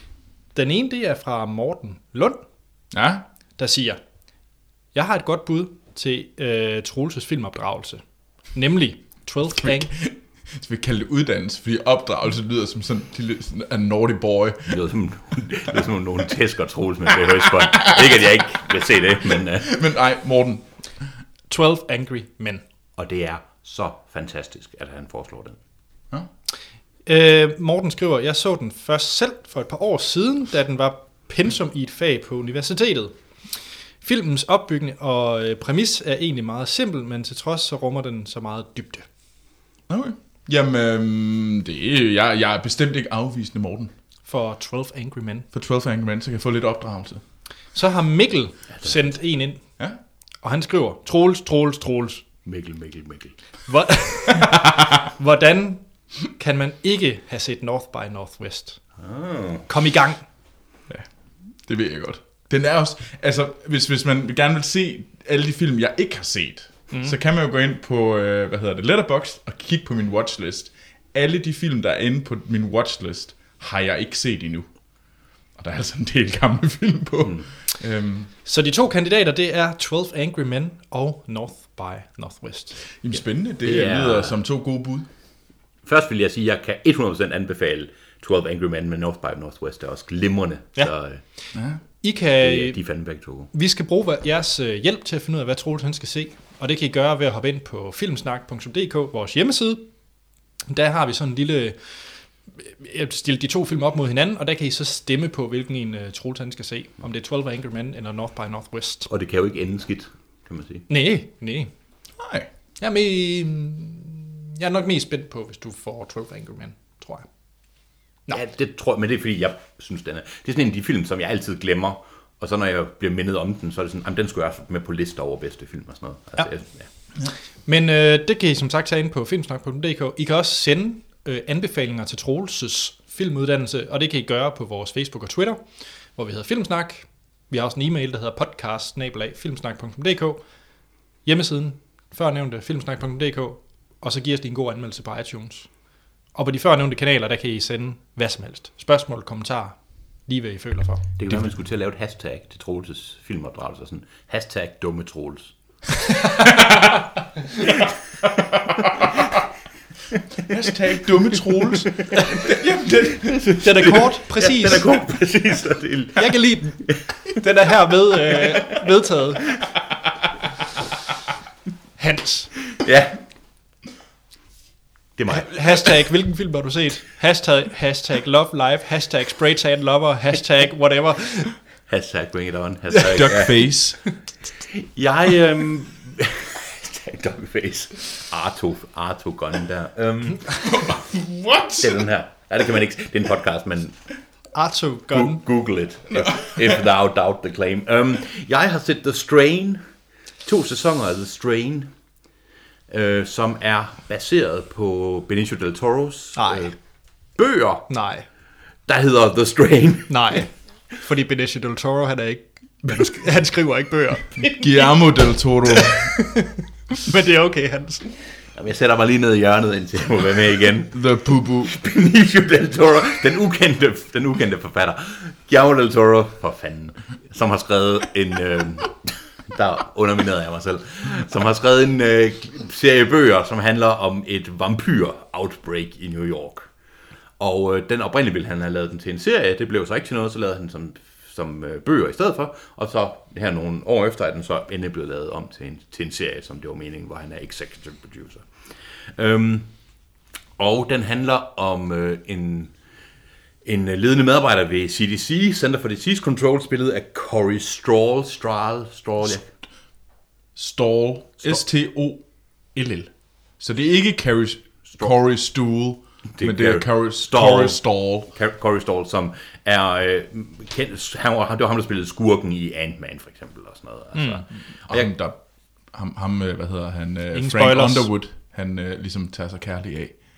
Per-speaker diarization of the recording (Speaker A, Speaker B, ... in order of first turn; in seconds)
Speaker A: 0.6-2.4, 3.6-4.0, 4.9-8.0, 8.5-9.9, 21.5-22.6, 27.1-33.1, 34.0-39.1, 44.3-45.5, 47.7-49.6, 50.4-52.2, 53.7-58.8, 59.7-60.2, 78.5-82.8, 92.0-92.8, 93.5-99.8, 100.7-101.8, 102.6-109.1, 110.9-111.7, 112.8-117.3, 127.7-135.6, 136.2-140.4, 141.2-145.7, 146.3-151.0, 163.6-164.9, 166.2-169.5, 172.0-172.5, 175.3-181.5, 194.5-195.4, 206.4-206.7, 207.9-208.3, 210.1-214.9, 215.7-218.0, 274.1-274.4, 277.3-278.1
Speaker B: 2.9-3.2, 9.6-14.8, 17.7-18.0, 19.6-20.7, 39.9-43.9, 45.5-47.2, 60.9-74.7, 75.6-78.3, 83.0-85.1, 91.5-91.8, 112.2-112.5, 158.5-159.1, 160.5-163.9, 183.1-184.0, 190.6-192.1, 196.1-196.8, 214.4-216.2, 220.9-221.8, 260.6-262.2, 262.7-268.3, 274.9-275.4, 275.9-280.1
Speaker C: 14.7-19.7, 23.0-25.6, 52.5-53.4, 59.0-59.7, 83.6-84.4, 85.8-91.2, 92.4-93.5, 109.1-110.8, 118.3-126.9, 151.2-155.5, 162.0-162.5, 163.2-167.0, 168.4-168.7, 172.7-173.2, 175.2-175.9, 181.9-183.6, 184.6-190.7, 191.8-194.0, 195.1-199.8, 200.4-201.9, 202.9-206.8, 207.4-207.9, 208.9-210.3, 218.6-221.0, 221.7-236.7, 237.4-248.5, 249.2-249.7, 250.6-252.7, 253.7-259.5, 266.3-275.1